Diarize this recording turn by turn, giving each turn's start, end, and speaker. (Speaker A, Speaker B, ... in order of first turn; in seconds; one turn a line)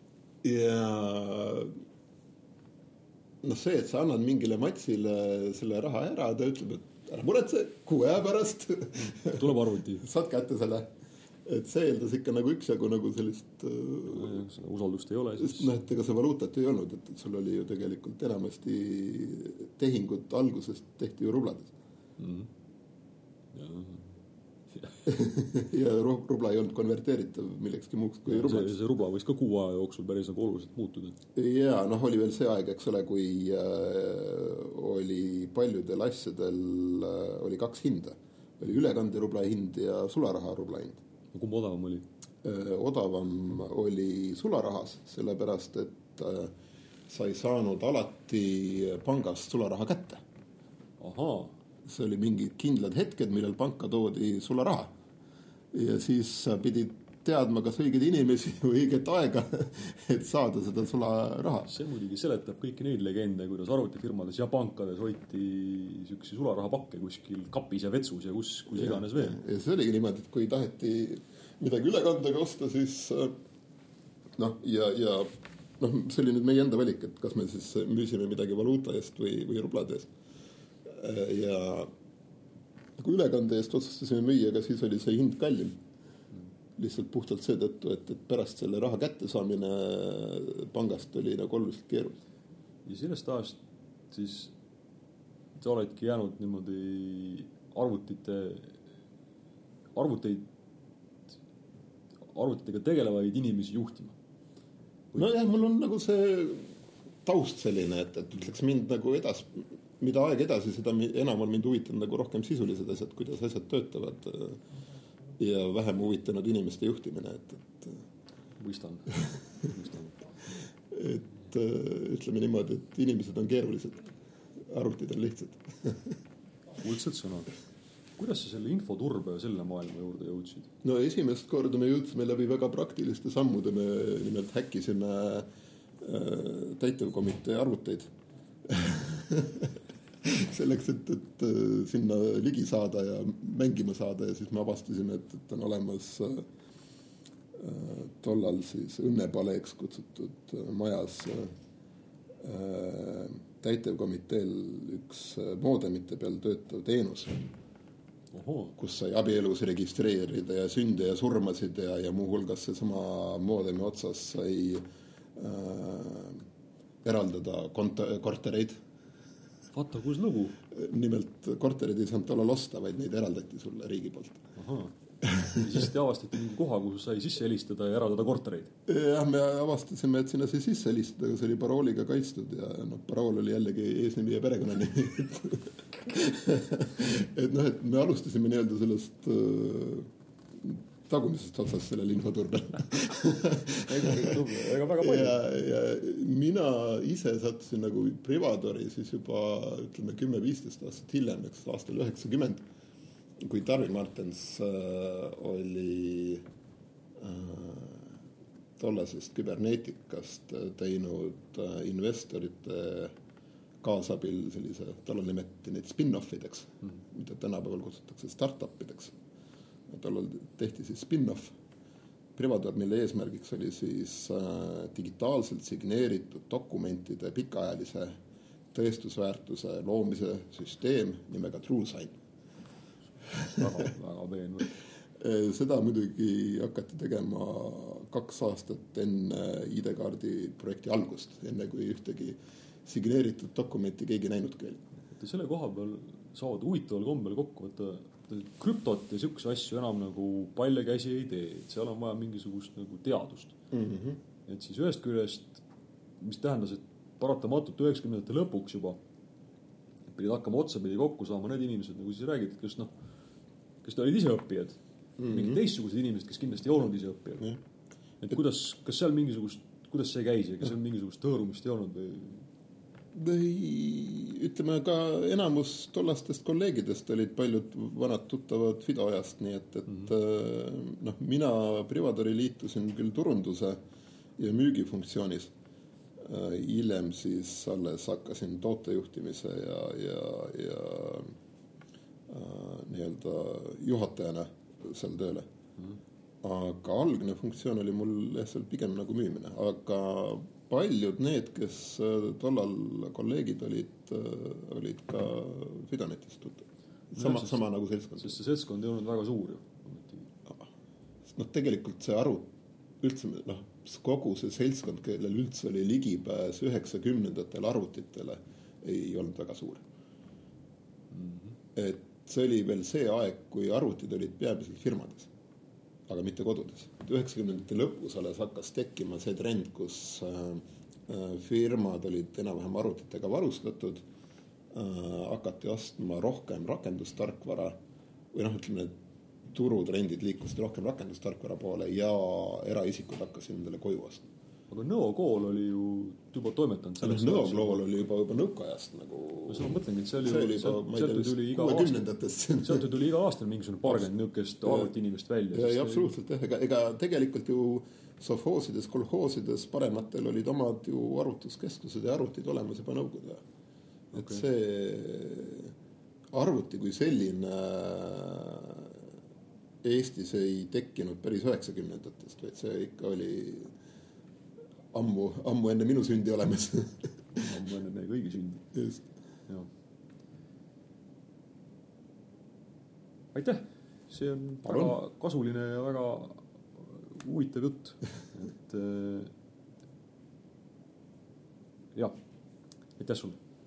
Speaker A: 0.4-1.8
Speaker A: 3.4-10.9
Speaker B: 9.0-10.1
Speaker A: 11.4-14.4
Speaker B: 14.1-15.8
Speaker A: 15.4-21.7
Speaker B: 22.2-22.5
Speaker B: 23.5-24.1
Speaker A: 25.1-28.8
Speaker B: 28.3-31.2
Speaker A: 31.4-41.0
Speaker B: 41.3-42.1
Speaker A: 42.4-46.5
Speaker A: 47.1-50.2
Speaker B: 51.0-51.5
Speaker A: 51.9-55.0
Speaker A: 55.7-61.7
Speaker B: 61.7-69.4
Speaker A: 68.7-73.3
Speaker A: 74.4-80.1
Speaker A: 80.9-81.9
Speaker A: 83.0-85.8
Speaker A: 86.8-92.2
Speaker B: 92.9-93.6
Speaker B: 94.1-94.5
Speaker B: 95.6-98.8
Speaker B: 100.0-100.5
Speaker B: 102.2-104.2
Speaker A: 105.1-114.6
Speaker A: 115.4-118.0
Speaker B: 118.6-120.2
Speaker A: 120.9-124.1
Speaker A: 124.7-126.2
Speaker B: 126.8-127.5
Speaker B: 128.2-130.7
Speaker A: 130.8-135.5
Speaker A: 136.0-138.1
Speaker A: 138.7-146.5
Speaker A: 147.6-151.5
Speaker A: 152.4-157.5
Speaker B: 158.3-158.8
Speaker A: 158.8-164.8
Speaker A: 165.3-166.4
Speaker A: 167.0-168.8
Speaker B: 169.7-170.6
Speaker A: 170.7-174.4
Speaker B: 174.6-174.9
Speaker A: 175.2-175.7
Speaker B: 175.5-178.7
Speaker A: 178.9-194.4
Speaker B: 193.8-195.4
Speaker A: 195.0-202.7
Speaker A: 203.4-206.4
Speaker A: 207.2-208.2
Speaker A: 208.8-213.2
Speaker A: 213.8-219.2
Speaker A: 219.9-221.6
Speaker A: 222.4-228.2
Speaker A: 228.7-232.2
Speaker A: 233.3-233.7
Speaker B: 233.4-234.7
Speaker A: 235.2-244.8
Speaker B: 245.2-253.6
Speaker A: 253.7-254.2
Speaker B: 254.5-255.6
Speaker B: 256.2-259.0
Speaker B: 260.1-262.9
Speaker B: 263.8-267.5
Speaker A: 265.2-265.6
Speaker B: 268.2-272.4
Speaker A: 273.1-283.8
Speaker A: 284.4-285.5
Speaker A: 286.2-291.3
Speaker A: 292.3-295.5
Speaker A: 296.4-308.4
Speaker B: 307.2-307.6
Speaker B: 308.2-310.3
Speaker A: 311.3-319.9
Speaker B: 321.1-321.6
Speaker A: 321.8-325.3
Speaker A: 326.1-334.0
Speaker A: 334.7-337.8
Speaker A: 338.3-338.9
Speaker A: 339.5-344.3
Speaker B: 344.7-347.8
Speaker A: 347.0-352.9
Speaker B: 349.5-351.9
Speaker B: 352.6-356.1
Speaker A: 355.5-363.4
Speaker A: 364.1-365.7
Speaker B: 364.1-364.4
Speaker A: 366.3-369.0
Speaker A: 369.8-373.8
Speaker A: 374.9-377.2
Speaker B: 377.4-378.7
Speaker A: 378.7-379.1
Speaker B: 383.3-389.3
Speaker A: 384.7-385.0
Speaker B: 393.0-393.4